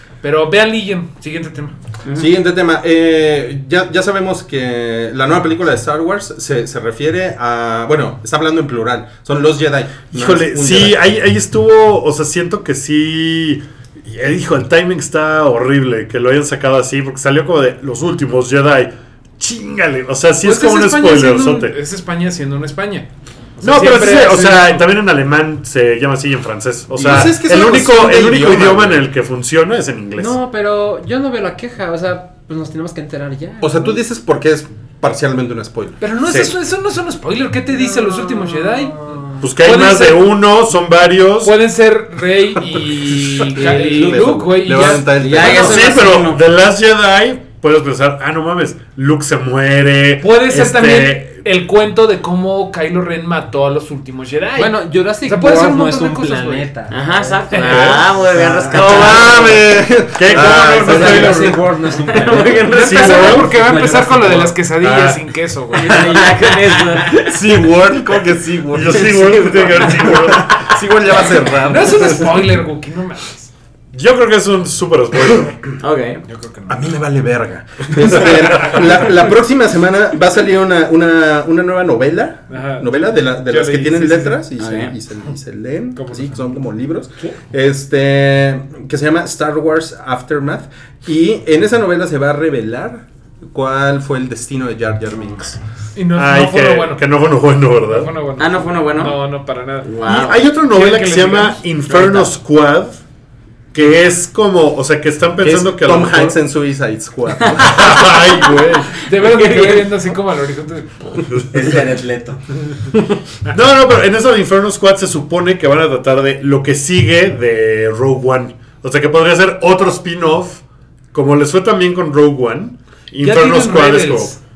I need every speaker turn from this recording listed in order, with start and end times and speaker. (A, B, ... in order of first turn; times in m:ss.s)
0:00.2-0:01.8 A
0:02.0-0:02.3 B
0:02.1-0:11.0 C
0:10.1-0:21.8 D
0:20.4-0:24.9 A
0:23.6-0:30.4 D
0:26.9-0:29.0 C
0:30.2-0:34.0 E
0:33.6-0:36.0 C
0:36.0-0:40.3 A
0:36.2-0:36.5 D
0:37.7-0:39.4 E
0:39.4-0:41.6 D
0:41.4-0:45.4 A
0:43.1-0:46.0 C
0:43.6-0:44.4 B
0:45.1-0:46.4 B
0:45.4-0:51.4 D
0:50.2-0:56.7 A
0:54.6-0:57.4 E
0:56.9-0:59.6 B
0:57.5-0:57.9 A
0:57.6-0:59.1 D
0:58.3-1:01.6 C
1:00.1-1:01.6 D
1:00.3-1:04.5 E
1:02.0-1:03.5 B
1:02.7-1:07.0 A
1:02.8-1:03.6 D
1:04.8-1:05.2 D
1:05.8-1:07.2 B
1:07.2-1:12.4 C
1:08.7-1:10.7 D
1:08.9-1:10.7 B
1:11.7-1:13.5 A
1:13.9-1:15.6 D
1:15.8-1:16.2 B
1:16.2-1:16.8 A
1:16.7-1:35.6 C
1:22.5-1:24.4 A
1:24.6-1:24.9 B
1:26.0-1:26.4 A
1:35.9-1:37.0 A
1:36.1-1:38.1 D
1:37.8-1:40.0 A
1:38.4-1:39.1 B
1:39.8-1:40.4 B
1:40.0-1:43.0 D
1:40.6-1:41.6 A
1:41.9-1:42.3 B
1:43.7-1:46.3 D
1:45.4-1:48.0 C
1:47.6-1:48.6 B
1:47.6-1:49.0 D
1:48.9-1:51.3 A
1:49.2-1:49.9 B
1:51.5-1:52.4 E
1:53.5-2:04.3 D
2:03.2-2:04.4 A